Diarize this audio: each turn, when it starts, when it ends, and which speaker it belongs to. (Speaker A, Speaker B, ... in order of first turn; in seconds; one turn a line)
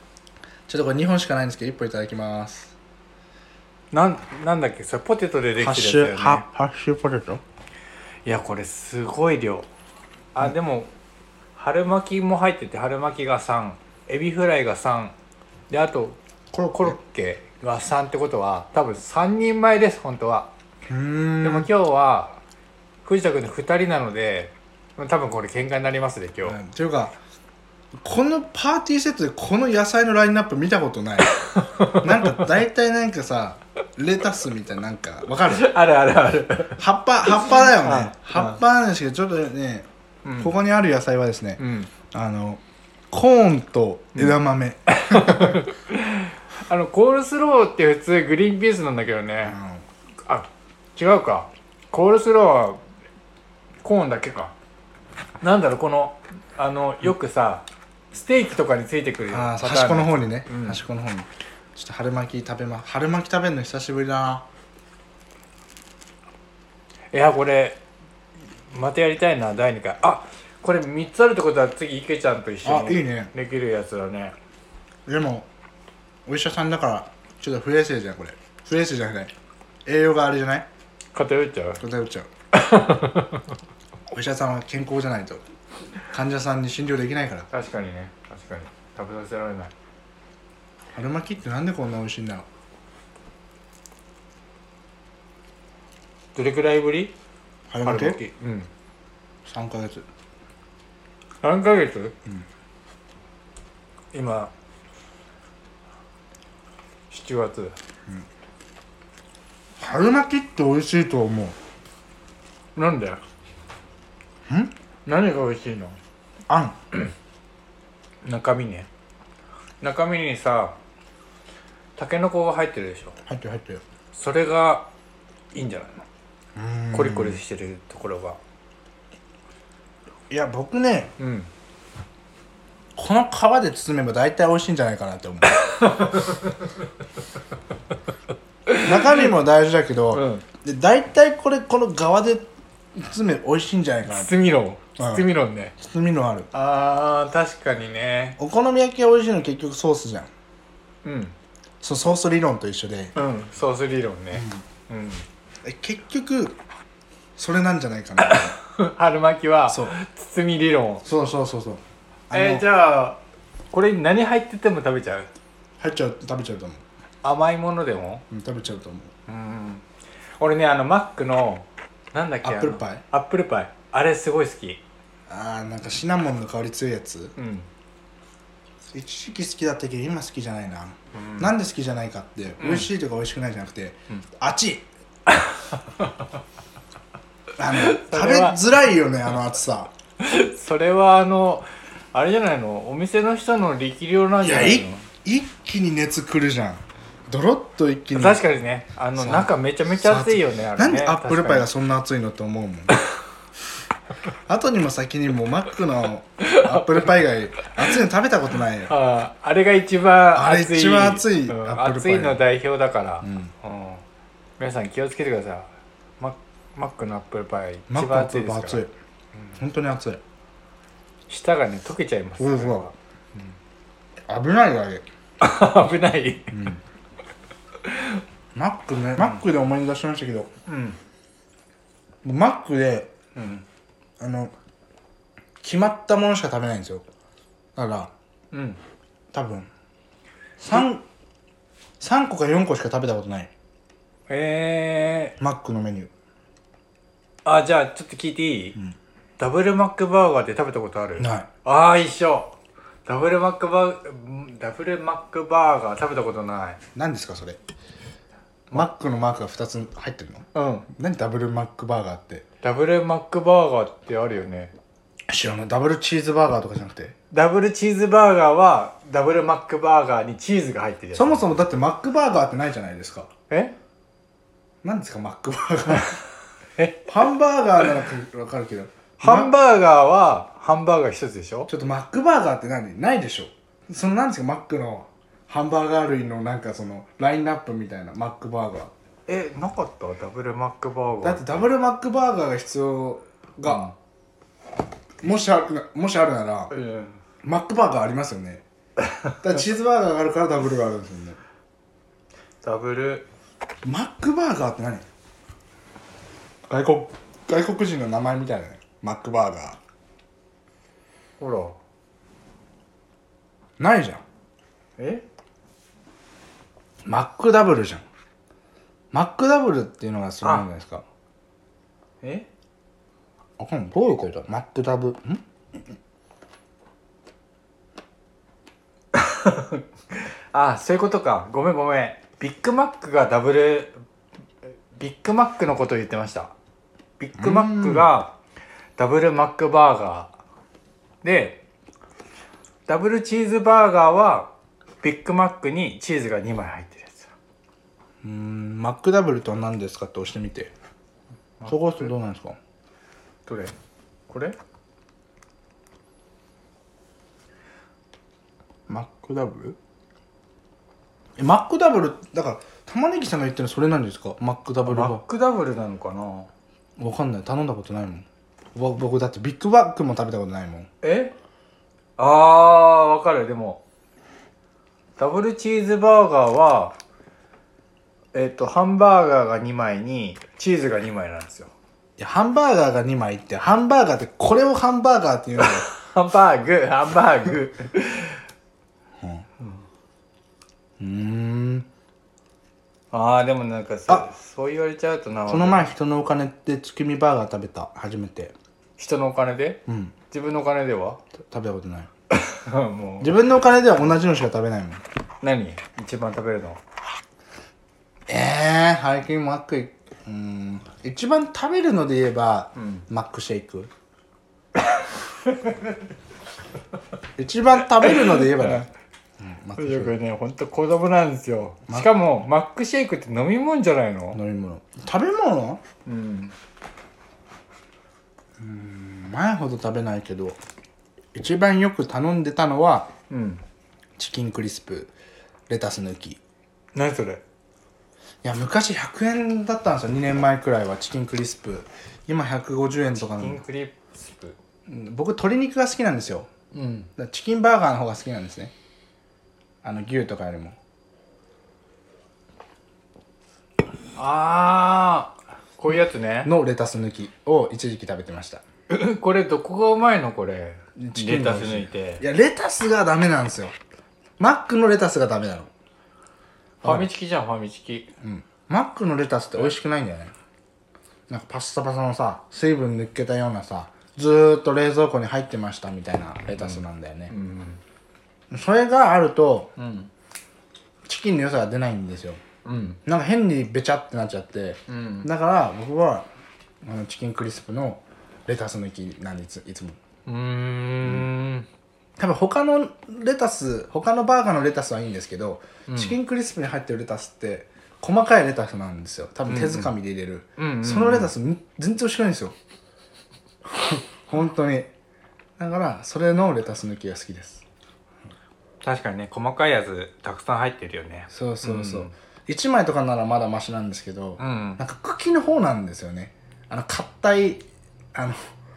Speaker A: 0.7-2.7
Speaker B: 3.9-6.5
Speaker A: 5.6-7.4
Speaker B: 8.2-9.7
Speaker B: 10.3-10.9
Speaker B: 11.6-15.2
Speaker B: 15.7-16.2
Speaker A: 16.5-17.0
Speaker B: 16.7-20.5
Speaker A: 20.9-21.7
Speaker B: 21.4-22.4
Speaker B: 23.1-26.6
Speaker A: 26.4-27.2
Speaker A: 28.0-35.7
Speaker B: 31.6-32.4
Speaker B: 35.5-38.6
Speaker A: 36.8-39.9
Speaker B: 40.2-40.5
Speaker A: 40.4-45.7
Speaker B: 41.6-41.9
Speaker B: 44.9-49.6
Speaker A: 49.5-49.8
Speaker B: 50.2-52.8
Speaker B: 53.8-54.5
Speaker B: 55.4-60.8
Speaker A: 59.3-64.5
Speaker B: 67.1-67.8
Speaker B: 68.7-74.4
Speaker A: 72.6-73.3
Speaker A: 75.1-75.5
Speaker A: 76.3-79.3
Speaker A: 79.9-80.7
Speaker B: 81.1-81.8
Speaker A: 81.8-82.3
Speaker B: 82.5-83.6
Speaker A: 84.1-85.4
Speaker A: 86.1-87.5
Speaker B: 87.5-89.7
Speaker A: 90.9-92.5
Speaker B: 96.3-97.2
Speaker A: 97.7-98.2
Speaker B: 97.8-98.7
Speaker A: 99.5-100.0
Speaker B: 101.4-102.2
Speaker B: 104.1-104.5
Speaker B: 107.1-107.8
Speaker A: 109.8-111.6
Speaker B: 112.8-113.2
Speaker A: 114.5-114.7
Speaker B: 115.1-116.0
Speaker A: 116.5-116.8
Speaker B: 118.2-118.9
Speaker B: 119.8-120.8
Speaker B: 122.0-123.2
Speaker A: 123.3-123.8
Speaker B: 124.1-124.9
Speaker B: 125.5-126.1
Speaker A: 126.6-127.4
Speaker B: 126.9-128.4
Speaker A: 130.3-131.1
Speaker B: 131.2-131.5
Speaker A: 133.0-135.8
Speaker B: 135.5-136.7
Speaker B: 138.7-139.3
Speaker A: 138.8-144.3
Speaker B: 140.1-140.4
Speaker B: 144.1-145.7
Speaker A: 145.0-145.3
Speaker A: 145.8-146.5
Speaker B: 146.5-148.4
Speaker A: 148.4-150.3
Speaker B: 151.0-151.4
Speaker A: 151.8-153.2
Speaker B: 153.2-155.3
Speaker A: 154.3-154.6
Speaker A: 155.6-156.6
Speaker A: 157.4-158.6
Speaker B: 158.2-161.0
Speaker A: 159.7-159.9
Speaker A: 161.0-162.7
Speaker B: 162.3-163.2
Speaker B: 163.7-165.3
Speaker A: 165.8-166.8
Speaker B: 167.2-168.2
Speaker A: 168.3-169.1
Speaker B: 169.3-169.8
Speaker B: 170.4-174.8
Speaker A: 172.4-173.0
Speaker A: 175.3-177.3
Speaker B: 177.4-177.7
Speaker A: 178.9-184.9
Speaker B: 181.1-181.5
Speaker B: 182.6-182.9
Speaker B: 185.3-186.3
Speaker A: 187.6-189.9
Speaker B: 187.7-188.6
Speaker B: 190.2-195.1
Speaker A: 194.4-198.4
Speaker B: 198.2-201.7
Speaker A: 199.2-203.0
Speaker A: 204.5-208.9
Speaker B: 206.4-207.1
Speaker B: 208.9-214.0
Speaker A: 210.3-212.4
Speaker A: 213.2-213.5
Speaker B: 214.6-218.8
Speaker A: 217.9-218.9
Speaker A: 219.6-220.2
Speaker B: 221.3-223.5
Speaker A: 222.4-222.9
Speaker A: 224.3-225.1
Speaker B: 225.4-226.6
Speaker A: 226.5-226.8
Speaker B: 227.8-228.2
Speaker A: 228.6-230.5
Speaker B: 230.7-231.0
Speaker A: 232.2-233.1
Speaker B: 233.3-233.7
Speaker A: 234.2-234.5
Speaker A: 235.6-237.1
Speaker A: 237.8-238.1
Speaker B: 238.5-238.8
Speaker A: 239.3-239.7
Speaker A: 240.6-241.0
Speaker A: 242.0-243.5
Speaker B: 244.3-245.4
Speaker A: 245.4-246.1
Speaker B: 247.4-248.8
Speaker B: 249.4-256.8
Speaker A: 251.2-251.5
Speaker A: 256.9-257.6
Speaker A: 258.7-262.5
Speaker B: 260.6-260.9
Speaker B: 262.6-264.8
Speaker A: 265.3-267.1
Speaker B: 267.3-271.4
Speaker A: 271.1-273.3
Speaker B: 273.5-273.8
Speaker A: 274.8-276.2
Speaker B: 276.8-277.1
Speaker A: 277.1-279.5
Speaker B: 279.2-281.7
Speaker A: 281.7-288.9
Speaker B: 289.3-291.7
Speaker A: 291.2-293.9
Speaker B: 293.7-293.9
Speaker A: 295.2-296.7
Speaker B: 296.7-297.2
Speaker A: 297.4-298.6
Speaker A: 299.4-301.4
Speaker B: 302.6-303.3
Speaker A: 303.8-305.1
Speaker A: 306.7-309.8
Speaker B: 311.4-311.8
Speaker A: 313.8-314.2
Speaker B: 315.0-315.2
Speaker A: 317.1-318.0
Speaker A: 319.1-321.0
Speaker B: 320.4-320.7
Speaker B: 322.2-322.5
Speaker A: 323.6-325.4
Speaker B: 329.1-334.0
Speaker B: 334.9-336.5
Speaker B: 337.2-338.4
Speaker A: 337.4-338.1
Speaker B: 339.0-340.3
Speaker B: 341.2-341.6
Speaker B: 342.9-347.3
Speaker A: 348.2-350.7
Speaker B: 351.6-352.1
Speaker A: 351.7-352.6
Speaker B: 353.5-353.7
Speaker B: 354.3-354.6
Speaker A: 358.9-359.8
Speaker A: 361.4-365.2
Speaker B: 364.9-366.5
Speaker A: 367.0-370.9
Speaker B: 371.0-371.4
Speaker B: 372.2-373.8
Speaker B: 375.2-377.0
Speaker B: 378.3-381.7
Speaker A: 382.2-385.9
Speaker B: 385.6-388.4
Speaker A: 389.2-389.5
Speaker A: 391.0-391.9
Speaker B: 393.1-395.9
Speaker A: 395.5-398.6
Speaker B: 399.0-401.2
Speaker A: 399.9-400.1
Speaker A: 401.5-402.1
Speaker B: 402.3-403.3
Speaker A: 403.2-405.0
Speaker B: 405.4-406.8
Speaker A: 408.3-413.9
Speaker B: 412.8-413.1
Speaker B: 414.8-415.9
Speaker A: 417.4-418.9
Speaker B: 418.0-418.9
Speaker A: 419.4-420.1
Speaker B: 419.8-424.4
Speaker A: 421.9-422.1
Speaker A: 424.3-425.8
Speaker B: 426.1-426.6
Speaker A: 428.6-430.6
Speaker A: 431.4-433.1
Speaker B: 433.3-433.6
Speaker A: 434.2-435.1
Speaker A: 435.7-436.4
Speaker B: 436.9-437.4
Speaker A: 438.4-443.6
Speaker B: 443.2-444.6
Speaker A: 444.9-446.5
Speaker B: 446.7-447.1
Speaker A: 447.2-448.7
Speaker A: 449.8-450.8
Speaker B: 454.2-456.5
Speaker A: 456.4-458.6
Speaker B: 458.9-462.2
Speaker A: 461.0-463.7
Speaker A: 464.4-465.7
Speaker B: 466.8-468.1
Speaker A: 466.8-467.1
Speaker A: 468.2-470.3
Speaker A: 471.3-477.3
Speaker B: 476.6-477.8
Speaker A: 478.5-479.7
Speaker B: 479.8-480.1
Speaker A: 481.1-482.4
Speaker B: 482.6-483.0
Speaker A: 483.1-486.3
Speaker B: 484.9-485.3
Speaker A: 486.8-490.0
Speaker B: 490.3-491.7
Speaker A: 491.0-491.3
Speaker A: 492.2-502.6
Speaker B: 495.9-496.2
Speaker B: 499.5-499.9
Speaker B: 500.6-501.3
Speaker A: 503.7-504.9
Speaker A: 505.6-507.6
Speaker B: 508.8-512.1
Speaker A: 511.3-518.4
Speaker B: 514.4-514.8